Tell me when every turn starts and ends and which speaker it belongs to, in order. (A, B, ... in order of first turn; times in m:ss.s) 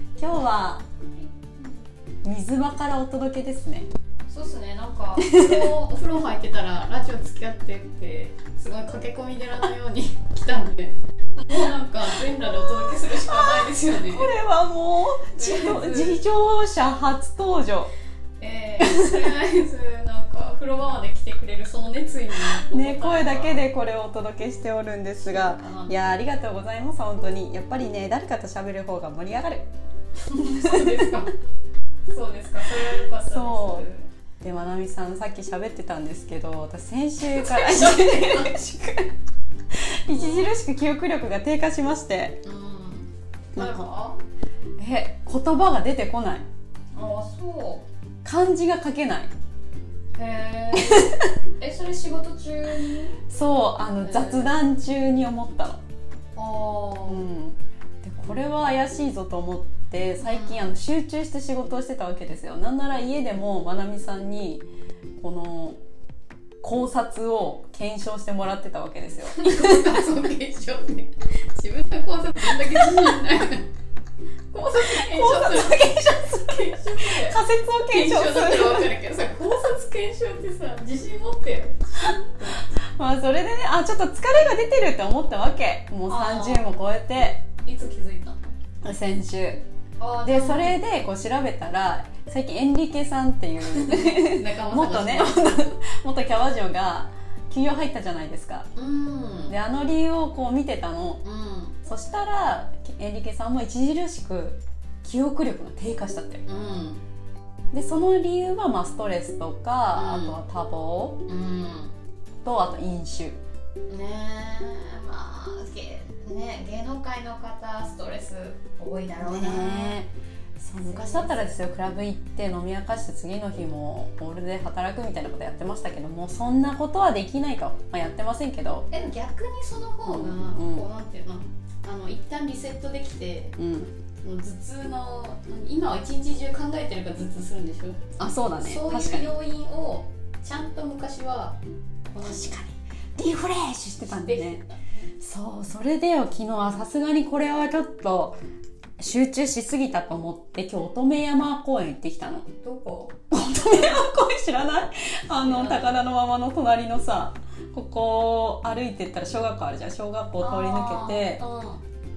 0:00.2-0:00.8 A
0:02.2-0:03.9 A
0:04.3-0:14.3 B
0:05.2-0:05.7 A
0:11.6-0:17.9 A
0:15.3-0:16.2 B
0:18.4-0:23.6 B
0:18.8-0:19.3 A
0:22.5-0:29.7 A
0:25.2-0:25.9 B
0:30.2-0:31.3 B
0:30.6-0:31.2 A
0:32.1-0:34.1 B
0:33.1-0:33.8 A
0:34.4-0:39.1 A
0:37.3-0:38.5 B
0:39.7-0:42.4 A
0:40.1-0:40.5 B
0:42.4-0:44.2 B
0:43.6-0:43.9 A
0:44.8-0:46.4 A
0:46.9-0:47.8 B
0:48.2-0:49.3 A
0:50.1-0:53.2 B
0:50.7-0:51.3 A
0:53.3-0:55.8 A
0:54.0-0:54.5 B
0:56.4-0:57.2 B
0:57.0-1:04.6 A
1:00.2-1:00.6 B
1:05.2-1:05.8 A
1:06.6-1:10.0 A
1:09.2-1:13.7 B
1:14.5-1:22.7 B
1:14.7-1:19.0 A
1:22.7-1:27.4 A
1:26.0-1:26.7 B
1:27.6-1:28.5 B
1:28.8-1:29.6 A
1:30.0-1:30.8 B
1:30.2-1:38.7 A
1:33.6-1:35.5 B
1:38.8-1:39.6 B
1:39.5-1:41.2 A
1:41.2-1:41.7 B
1:41.8-1:46.4 A
1:46.4-1:47.0 B
1:47.7-1:51.2 A
1:49.9-1:50.4 B
1:51.3-1:51.9 B
1:52.4-1:53.4 A
1:53.9-2:00.0 B
1:59.2-2:08.9 A
2:00.8-2:01.6 B
2:08.9-2:13.5 B
2:10.0-2:10.8 A
2:13.6-2:13.9 A
2:14.2-2:18.0 B
2:18.2-2:19.3 A
2:18.6-2:22.5 B
2:22.2-2:24.6 A
2:24.1-2:24.8 B
2:25.2-2:28.4 A
2:29.0-2:32.5 A
2:32.6-2:33.2 B
2:33.3-2:41.4 A
2:35.3-2:36.0 B
2:40.4-2:41.8 B